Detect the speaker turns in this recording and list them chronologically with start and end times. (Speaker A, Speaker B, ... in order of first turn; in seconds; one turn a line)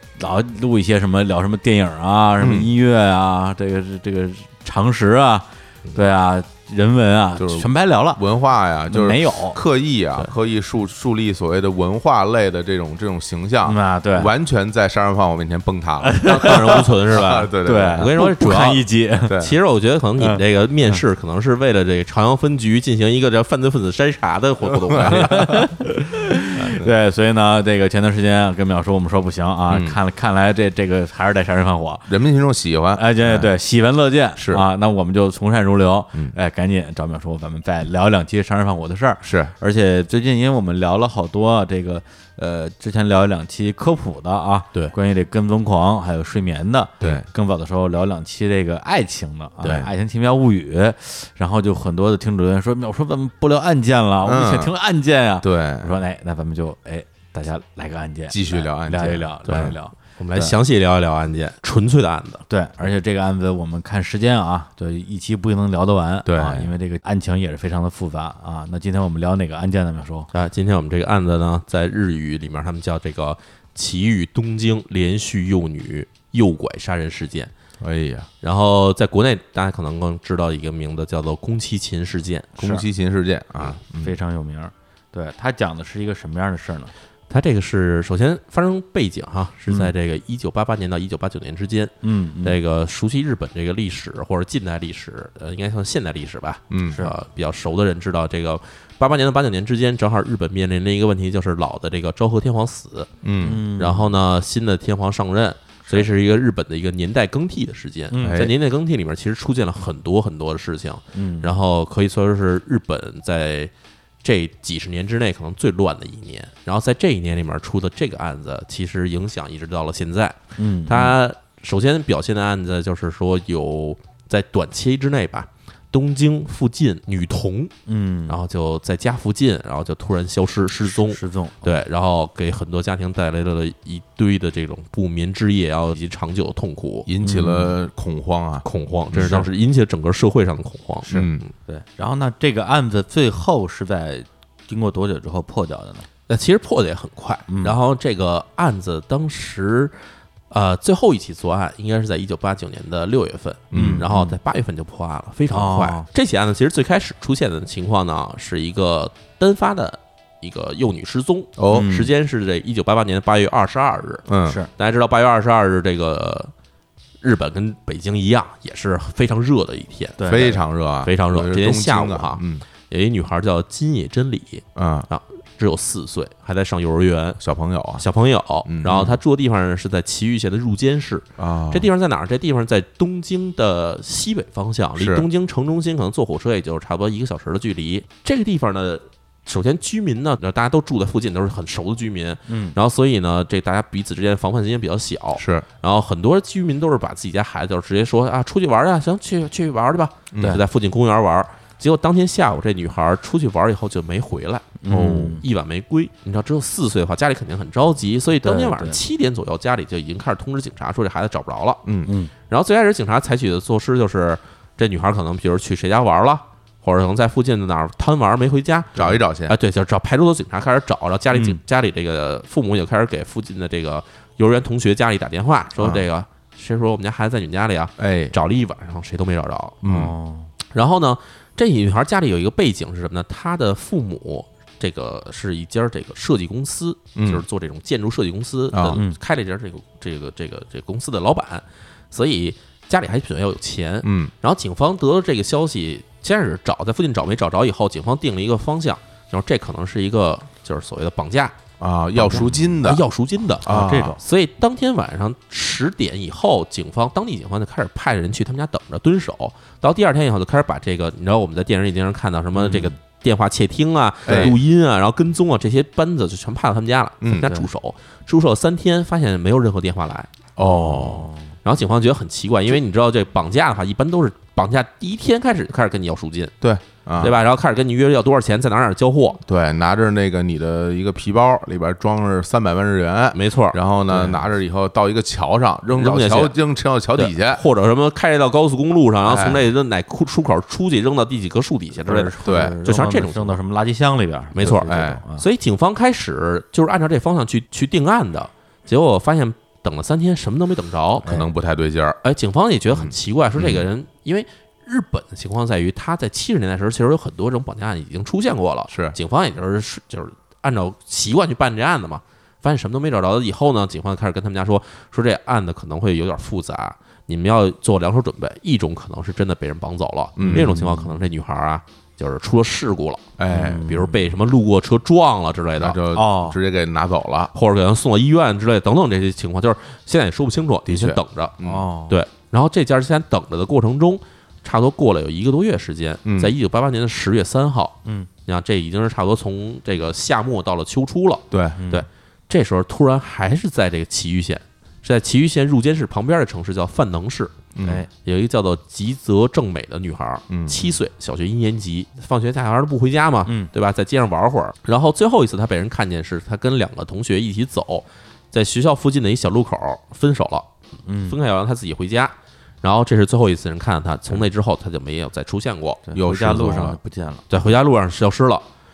Speaker A: 0.2-8.2
Speaker B: 2.4-2.7
Speaker B: 7.4-18.1
Speaker A: 8.9-9.6
Speaker A: 13.7-14.3
Speaker A: 16.0-16.9
Speaker C: 16.2-25.6
Speaker A: 17.6-19.4
Speaker B: 19.3-19.6
Speaker A: 20.2-21.0
Speaker B: 24.7-25.6
Speaker A: 25.1-32.1
Speaker B: 26.6-26.9
Speaker B: 29.7-30.0
Speaker B: 32.1-33.5
Speaker A: 33.0-60.0
Speaker B: 34.4-34.6
Speaker B: 39.2-39.5
Speaker B: 47.0-47.3
Speaker B: 49.6-49.9
Speaker B: 54.2-54.8
Speaker B: 55.4-56.0
Speaker B: 58.3-59.8
Speaker C: 59.6-62.4
Speaker A: 62.5-70.3
Speaker B: 66.2-66.7
Speaker C: 70.3-77.5
Speaker B: 77.8-78.3
Speaker C: 78.4-82.7
Speaker B: 82.6-84.2
Speaker A: 84.0-86.9
Speaker C: 87.3-103.1
Speaker A: 92.0-92.6
Speaker B: 96.7-97.0
Speaker B: 103.2-103.6
Speaker A: 103.4-104.1
Speaker C: 103.8-113.7
Speaker A: 108.1-108.4
Speaker B: 108.2-108.5
Speaker A: 111.1-111.5
Speaker C: 114.2-127.7
Speaker A: 120.6-121.1
Speaker A: 127.9-128.4
Speaker C: 128.3-137.1
Speaker A: 130.9-131.7
Speaker B: 137.1-139.5
Speaker A: 137.2-137.7
Speaker C: 138.7-141.2
Speaker A: 141.1-146.1
Speaker B: 141.1-141.5
Speaker C: 146.3-149.9
Speaker A: 147.5-147.8
Speaker C: 150.5-166.5
Speaker B: 153.7-154.0
Speaker A: 153.8-154.4
Speaker A: 155.5-156.1
Speaker B: 161.6-161.9
Speaker A: 161.7-162.1
Speaker B: 164.3-164.6
Speaker A: 164.4-164.7
Speaker C: 167.2-170.5
Speaker A: 170.2-170.6
Speaker B: 170.3-172.6
Speaker C: 171.0-177.4
Speaker B: 174.8-175.1
Speaker B: 177.4-178.1
Speaker C: 178.0-211.9
Speaker B: 178.7-179.1
Speaker B: 181.4-181.9
Speaker B: 185.0-185.3
Speaker A: 192.5-192.8
Speaker B: 195.4-195.7
Speaker B: 200.3-200.6
Speaker A: 204.8-205.4
Speaker B: 204.9-205.3
Speaker A: 208.4-209.0
Speaker B: 211.8-212.1
Speaker A: 212.1-212.3
Speaker C: 212.5-229.8
Speaker B: 218.9-219.6
Speaker A: 221.3-221.6
Speaker B: 225.8-226.1
Speaker B: 228.0-228.3
Speaker B: 229.8-230.1
Speaker A: 229.9-230.5
Speaker C: 230.7-251.6
Speaker B: 237.2-237.4
Speaker B: 238.7-239.0
Speaker B: 244.0-244.3
Speaker B: 251.8-253.1
Speaker C: 252.2-270.3
Speaker B: 253.6-254.2
Speaker A: 253.7-254.2
Speaker A: 262.6-262.9
Speaker B: 264.3-264.6
Speaker B: 267.2-267.5
Speaker B: 270.6-271.3
Speaker A: 270.6-271.5
Speaker C: 271.6-276.5
Speaker B: 276.6-277.4
Speaker C: 277.2-279.4
Speaker B: 279.5-287.6
Speaker C: 283.3-283.8
Speaker A: 284.1-284.4
Speaker C: 285.9-286.6
Speaker C: 287.2-293.6
Speaker B: 289.2-289.7
Speaker A: 292.0-295.4
Speaker B: 292.4-292.8
Speaker C: 294.6-301.3
Speaker B: 294.6-295.2
Speaker B: 301.2-302.2
Speaker C: 302.2-323.3
Speaker B: 302.9-303.9
Speaker B: 308.9-309.2
Speaker B: 320.4-320.7
Speaker A: 320.4-321.2
Speaker B: 323.4-323.9
Speaker A: 323.5-324.2
Speaker C: 323.8-326.0
Speaker B: 325.8-327.5
Speaker A: 326.1-326.6
Speaker C: 327.5-347.5
Speaker B: 330.9-331.8
Speaker A: 331.6-332.2
Speaker B: 336.2-336.5
Speaker B: 341.5-341.8
Speaker A: 341.8-342.1
Speaker B: 347.8-348.1
Speaker A: 347.8-348.1
Speaker C: 348.2-360.7
Speaker B: 350.5-350.8
Speaker A: 361.1-361.4
Speaker C: 361.2-366.1
Speaker A: 366.1-367.4
Speaker B: 366.2-367.0
Speaker C: 367.5-368.6